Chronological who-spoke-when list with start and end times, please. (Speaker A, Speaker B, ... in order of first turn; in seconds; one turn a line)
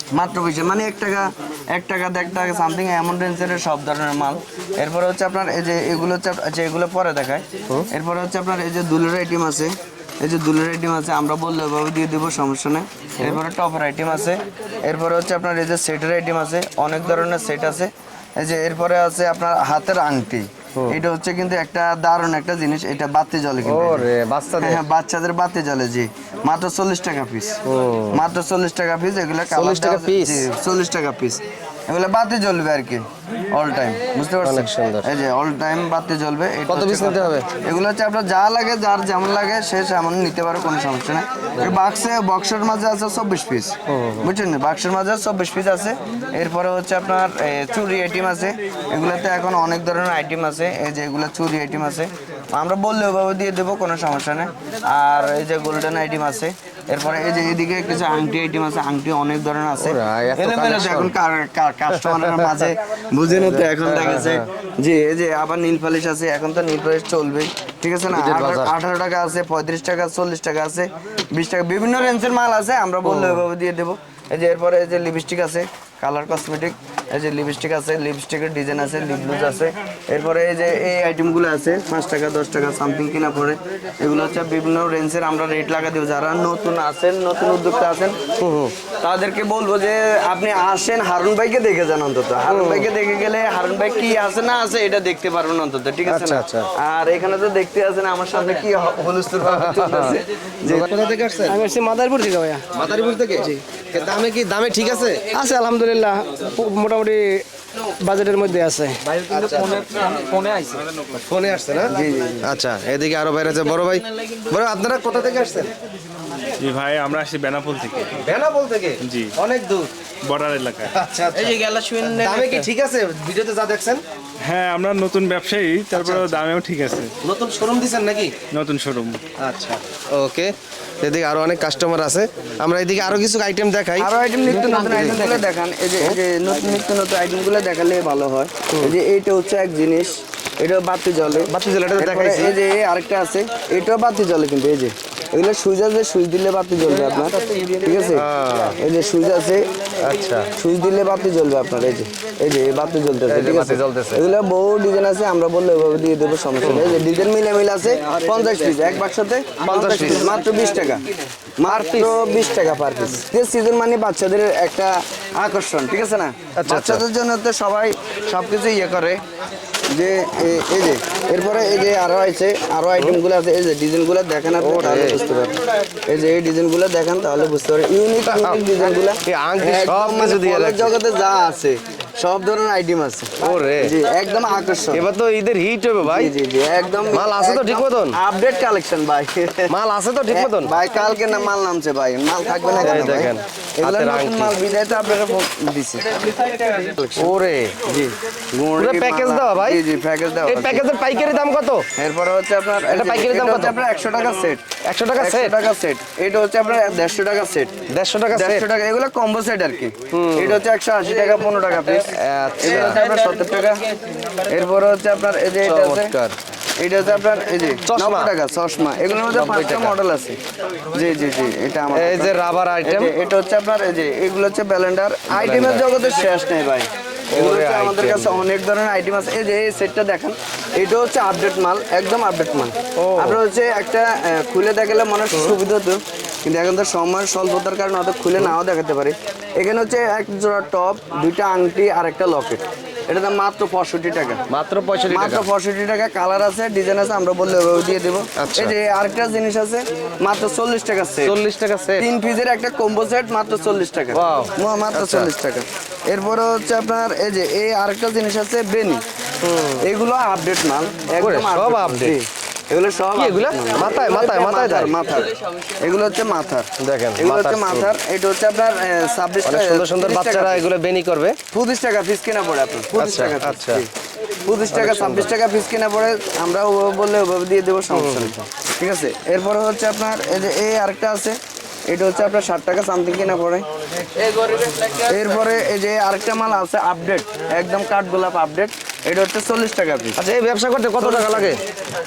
Speaker A: 0.1-88.2
Speaker B: 23.6-24.8
Speaker B: 27.6-28.2
Speaker B: 29.5-30.4
Speaker B: 34.4-35.1
Speaker B: 36.7-37.5
Speaker B: 43.9-44.3
Speaker B: 59.8-61.1
Speaker B: 61.9-62.7
Speaker B: 63.3-64.4
Speaker B: 68.1-68.7
Speaker B: 73.0-73.5
Speaker B: 88.4-88.7
Speaker A: 89.0-100.9
Speaker B: 92.5-92.9
Speaker B: 96.1-96.7
Speaker B: 99.4-101.6
Speaker C: 101.5-102.6
Speaker B: 102.7-105.4
Speaker C: 105.3-110.8
Speaker B: 109.2-110.0
Speaker B: 111.2-115.7
Speaker A: 111.8-112.5
Speaker D: 116.6-118.3
Speaker B: 118.2-119.9
Speaker D: 119.0-119.3
Speaker D: 120.2-120.9
Speaker B: 120.9-124.0
Speaker C: 121.5-122.6
Speaker D: 124.4-127.1
Speaker B: 125.9-126.3
Speaker B: 127.2-128.3
Speaker D: 128.5-129.2
Speaker B: 129.4-135.4
Speaker A: 134.0-148.2
Speaker B: 141.4-142.5
Speaker B: 148.1-148.8
Speaker A: 148.8-149.6
Speaker B: 150.0-150.5
Speaker A: 150.6-161.0
Speaker B: 153.3-154.2
Speaker B: 156.6-157.0
Speaker B: 159.6-160.3
Speaker A: 161.6-169.2
Speaker B: 161.6-162.1
Speaker B: 166.6-167.0
Speaker A: 169.9-185.1
Speaker B: 174.6-175.2
Speaker B: 178.2-178.6
Speaker B: 179.2-180.9
Speaker B: 183.4-183.9
Speaker B: 184.9-186.3
Speaker A: 186.0-189.7
Speaker B: 187.1-188.2
Speaker B: 189.7-190.7
Speaker A: 190.3-197.3
Speaker B: 192.8-194.6
Speaker B: 197.2-197.8
Speaker A: 197.8-200.8
Speaker B: 198.8-199.8
Speaker B: 200.5-201.8
Speaker A: 201.9-207.7
Speaker B: 202.9-203.8
Speaker B: 204.8-205.6
Speaker B: 207.9-208.7
Speaker A: 208.3-213.8
Speaker B: 210.1-210.6
Speaker B: 212.1-213.0
Speaker A: 214.5-216.1
Speaker B: 215.6-216.3
Speaker A: 216.8-220.4
Speaker B: 217.8-218.3
Speaker B: 219.3-219.9
Speaker A: 220.9-244.4
Speaker B: 221.9-223.1
Speaker B: 225.3-225.9
Speaker B: 227.3-228.4
Speaker B: 233.0-233.4
Speaker B: 244.5-245.5
Speaker A: 245.1-251.3
Speaker B: 248.3-248.7
Speaker B: 251.2-252.1
Speaker A: 252.0-259.0
Speaker B: 254.1-255.3
Speaker B: 259.4-259.8
Speaker A: 259.8-270.6
Speaker B: 261.2-262.1
Speaker B: 263.1-264.9
Speaker B: 266.8-267.9
Speaker B: 269.4-271.4
Speaker A: 271.5-273.9
Speaker B: 272.9-273.8
Speaker A: 274.4-283.6
Speaker B: 274.7-275.3
Speaker B: 277.9-278.3
Speaker A: 284.8-290.2
Speaker B: 290.2-291.6
Speaker A: 291.0-291.6